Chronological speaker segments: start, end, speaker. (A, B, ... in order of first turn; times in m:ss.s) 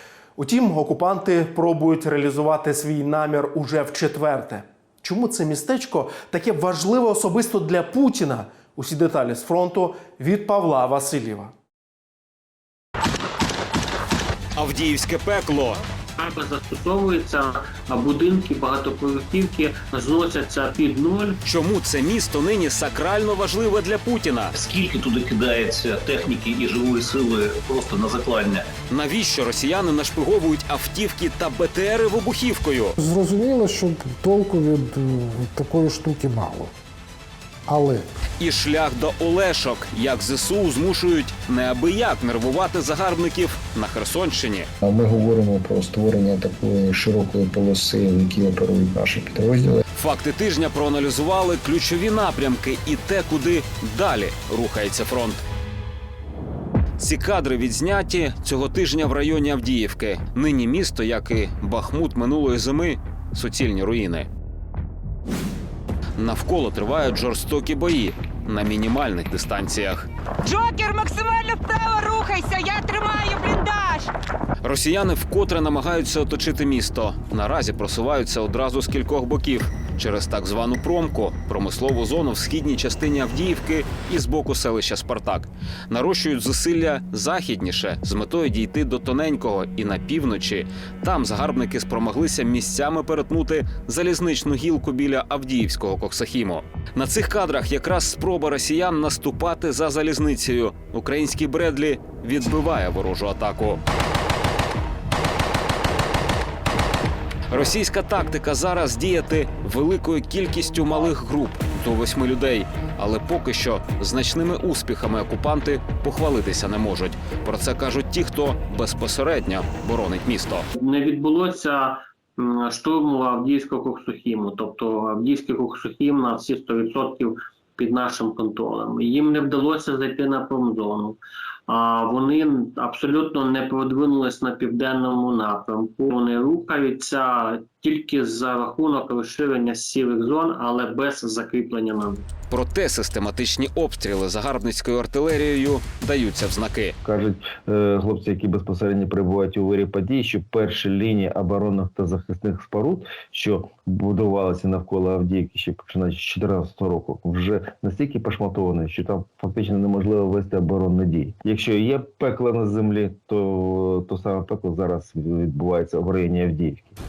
0:00.4-0:11.5 A
0:14.6-0:15.8 B
0:16.2-0:21.4 C
0:21.4-0:24.5 B
0:24.6-0:28.6 D
0:28.9-0:33.0 B
0:33.0-0:36.7 E
0:37.7-0:38.0 E
0:38.4-0:44.7 B
0:44.8-0:49.8 F
0:50.0-0:55.4 B
0:57.0-1:04.3 B
1:06.2-1:10.1 B
1:10.4-1:14.1 G
1:14.6-1:43.8 B
1:47.5-2:00.7 B
2:00.8-2:22.3 C
2:22.5-2:27.0 B
2:27.0-2:47.0 H